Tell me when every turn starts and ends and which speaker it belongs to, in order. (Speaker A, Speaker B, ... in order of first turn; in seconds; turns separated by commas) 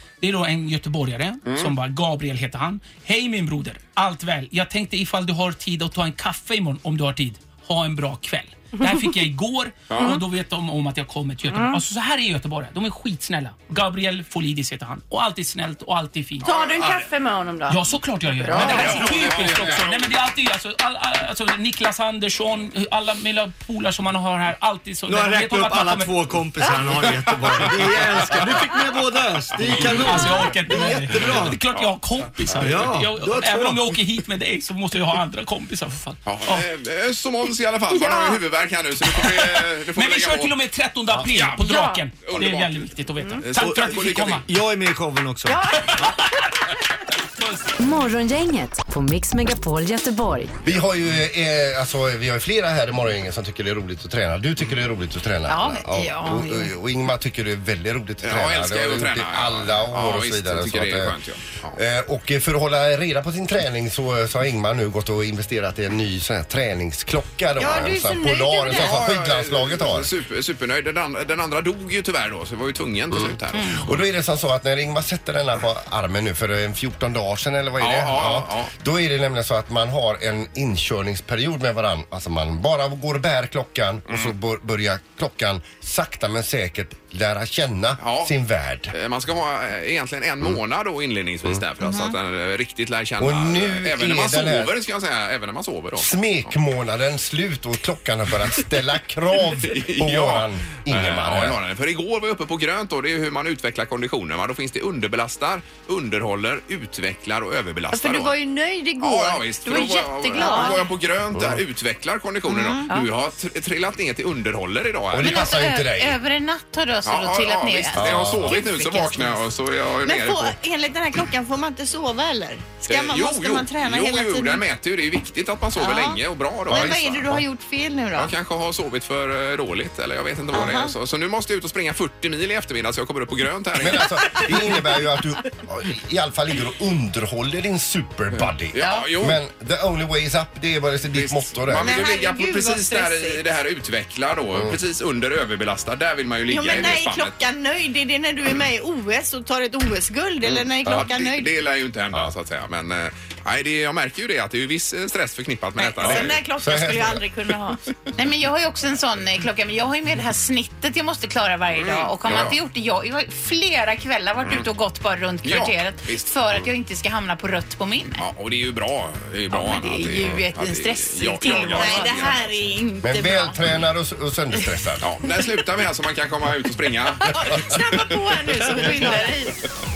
Speaker A: 0.2-16.5, Speaker B: 1.4-1.7, Speaker B: 9.9-10.2, Speaker C: 16.4-17.8, Speaker B: 16.4-16.9, Speaker A: 17.7-26.1, Speaker C: 18.4-18.9, Speaker D: 18.5-19.0, Speaker B: 18.6-20.1, Speaker D: 25.1-31.6, Speaker B: 27.6-28.5, Speaker B: 29.6-30.1, Speaker A: 29.7-36.6, Speaker B: 31.1-31.9, Speaker D: 32.5-34.0, Speaker B: 36.2-40.5, Speaker C: 37.9-38.4, Speaker A: 39.1-44.4, Speaker B: 41.2-42.9, Speaker C: 41.7-42.0, Speaker B: 43.4-44.4, Speaker D: 43.6-45.7, Speaker C: 45.5-46.1, Speaker A: 47.4-47.7, Speaker E: 47.8-50.6, Speaker F: 50.6-61.1, Speaker G: 55.5-56.7, Speaker B: 58.2-61.8, Speaker F: 61.7-70.1, Speaker C: 67.6-69.0, Speaker B: 68.7-73.9, Speaker F: 73.1-88.9, Speaker B: 77.8-78.7, Speaker B: 84.1-84.3, Speaker B: 88.0-88.3, Speaker B: 88.9-96.5, Speaker C: 91.8-92.2, Speaker F: 93.2-94.7, Speaker F: 96.0-101.6, Speaker B: 99.6-108.3, Speaker C: 107.9-110.8, Speaker B: 109.0-115.5, Speaker G: 109.7-110.8, Speaker F: 111.3-111.6, Speaker C: 112.5-113.0, Speaker F: 115.1-116.2, Speaker G: 115.2-119.4, Speaker B: 117.0-120.5, Speaker F: 118.0-118.6, Speaker C: 120.0-124.6, Speaker B: 122.9-127.2, Speaker C: 125.8-128.3, Speaker F: 126.7-127.4, Speaker B: 128.1-134.5, Speaker C: 130.5-130.9, Speaker F: 133.8-142.0, Speaker B: 138.3-139.4, Speaker B: 141.1-147.3, Speaker C: 141.8-143.4, Speaker C: 146.5-151.5, Speaker B: 150.5-156.4, Speaker C: 155.8-157.8, Speaker F: 156.0-157.2, Speaker G: 158.2-168.2, Speaker B: 161.7-162.6, Speaker B: 165.4-166.3, Speaker B: 168.2-172.4, Speaker G: 169.5-172.3, Speaker C: 171.4-173.6, Speaker F: 173.0-175.1, Speaker B: 175.0-178.0, Speaker C: 177.3-179.6, Speaker B: 178.8-179.1